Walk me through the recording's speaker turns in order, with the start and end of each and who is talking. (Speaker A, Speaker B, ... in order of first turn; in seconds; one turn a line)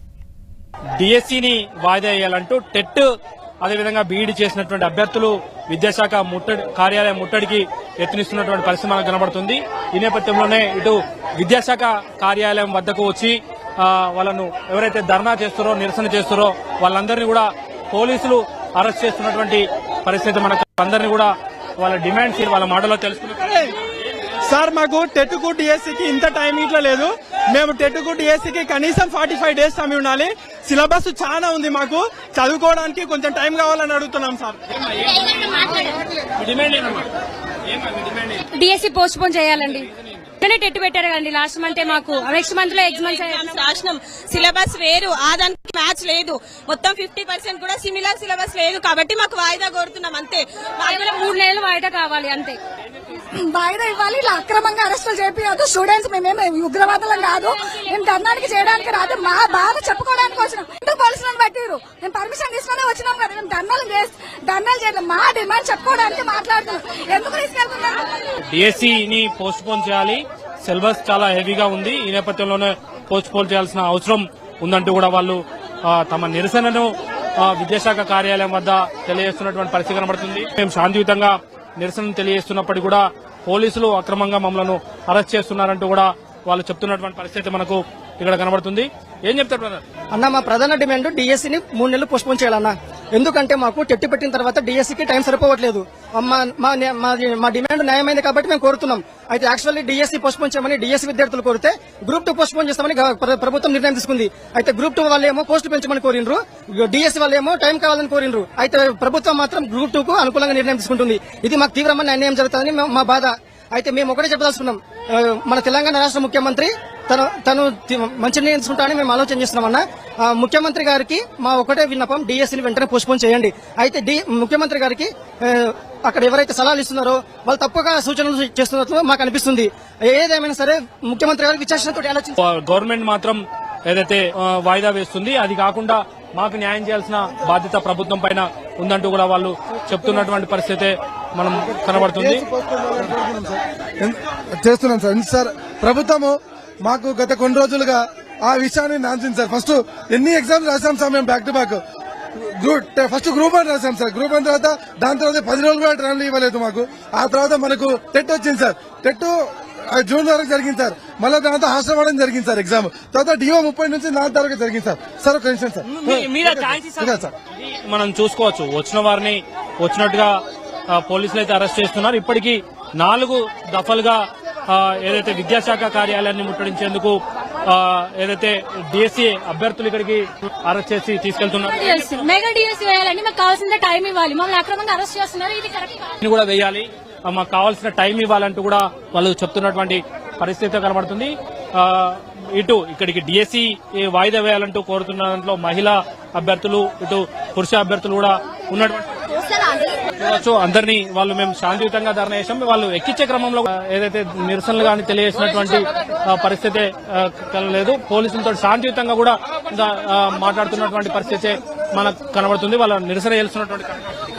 Speaker A: 1.0-3.1
Speaker A: 3.6-23.6
Speaker B: 23.5-23.7
Speaker B: 24.4-34.6
Speaker A: 36.4-37.0
Speaker A: 37.8-38.4
Speaker C: 38.5-39.9
Speaker C: 40.4-43.6
Speaker D: 42.9-51.3
Speaker C: 50.8-52.6
Speaker E: 53.4-68.0
Speaker A: 68.5-76.9
Speaker A: 77.4-89.8
Speaker F: 90.1-132.3
Speaker A: 132.4-142.4
Speaker G: 141.9-151.8
Speaker G: 152.4-167.3
Speaker A: 165.8-167.3
Speaker A: 167.8-170.3
Speaker A: 170.9-182.1
Speaker C: 181.7-186.1
Speaker A: 186.2-199.0
Speaker A: 200.2-214.0